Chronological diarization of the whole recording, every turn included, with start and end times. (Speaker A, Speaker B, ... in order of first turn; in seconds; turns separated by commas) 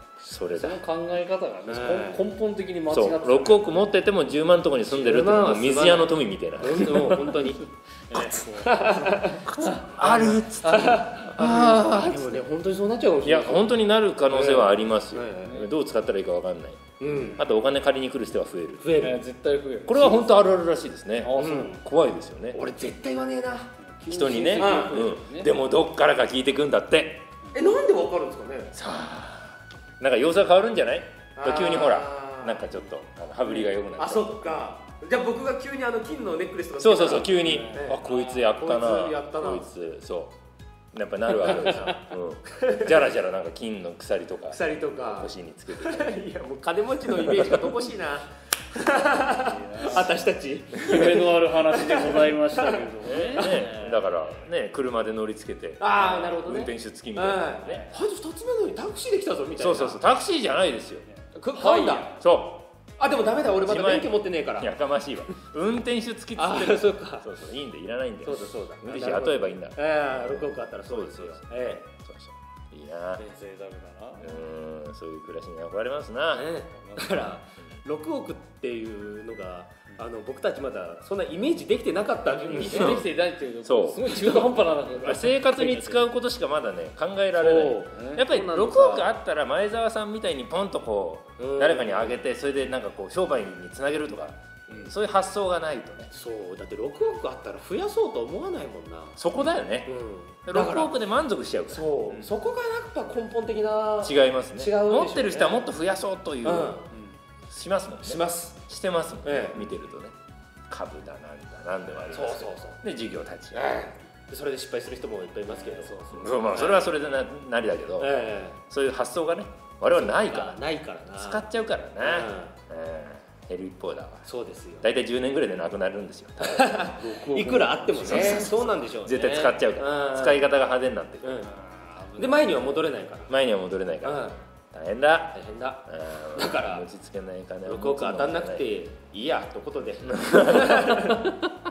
Speaker A: 0.2-0.8, Speaker B: 0.5-3.8, Speaker C: 1.7-2.2, Speaker A: 2.9-7.2, Speaker C: 4.9-9.5, Speaker B: 6.9-7.3, Speaker B: 8.1-9.1, Speaker A: 9.4-12.4, Speaker B: 9.7-10.4, Speaker C: 10.0-13.7, Speaker A: 13.2-16.8, Speaker C: 14.2-15.6, Speaker B: 15.4-15.7, Speaker C: 17.0-17.4, Speaker A: 17.4-18.9, Speaker C: 18.8-19.2, Speaker B: 19.0-20.5, Speaker A: 19.9-22.6, Speaker B: 21.2-21.8, Speaker C: 21.3-21.7, Speaker C: 22.5-23.7, Speaker B: 23.8-25.5, Speaker A: 24.1-27.3, Speaker C: 24.5-25.1, Speaker C: 27.5-28.7, Speaker A: 28.7-34.4, Speaker C: 31.4-32.7, Speaker B: 33.4-33.8, Speaker C: 33.9-39.8, Speaker A: 36.8-40.3, Speaker B: 37.4-38.5, Speaker A: 40.9-46.2, Speaker B: 41.3-42.1, Speaker C: 41.5-41.9, Speaker C: 42.5-43.1, Speaker C: 44.5-52.9, Speaker B: 48.9-50.2, Speaker B: 50.7-54.5, Speaker A: 53.0-57.9, Speaker C: 55.8-60.0, Speaker A: 59.6-61.0, Speaker B: 61.0-62.2, Speaker C: 61.3-62.1, Speaker A: 62.2-62.7, Speaker C: 63.0-64.7, Speaker A: 63.6-73.2, Speaker C: 66.3-67.3, Speaker C: 68.2-71.8, Speaker B: 73.2-74.3, Speaker A: 74.2-76.5, Speaker C: 76.3-83.0, Speaker B: 76.7-77.3, Speaker B: 82.4-86.1, Speaker A: 82.5-83.1, Speaker A: 83.6-84.2, Speaker A: 84.9-96.1, Speaker C: 87.4-88.5, Speaker B: 87.9-89.1, Speaker C: 91.4-92.2, Speaker C: 96.1-99.2, Speaker A: 99.2-101.8, Speaker C: 99.8-100.9, Speaker C: 101.7-105.6, Speaker A: 104.0-106.8, Speaker C: 106.4-106.9, Speaker B: 106.9-107.2, Speaker A: 107.5-110.1, Speaker C: 108.0-108.6, Speaker C: 109.2-109.7, Speaker A: 110.7-113.6, Speaker B: 111.9-112.2, Speaker C: 112.1-112.8, Speaker C: 113.5-116.9, Speaker B: 115.5-116.7, Speaker A: 116.1-118.1, Speaker C: 118.0-118.6, Speaker A: 118.7-120.6, Speaker C: 119.9-122.5, Speaker A: 121.2-124.3, Speaker C: 124.2-124.9, Speaker A: 124.8-131.5, Speaker C: 126.4-130.4, Speaker B: 127.0-128.3, Speaker C: 131.2-131.5, Speaker B: 131.4-132.8, Speaker C: 132.2-133.3, Speaker A: 133.3-138.7, Speaker C: 134.0-134.4, Speaker C: 135.3-136.9, Speaker C: 137.6-141.2, Speaker A: 140.2-141.1, Speaker B: 140.9-141.5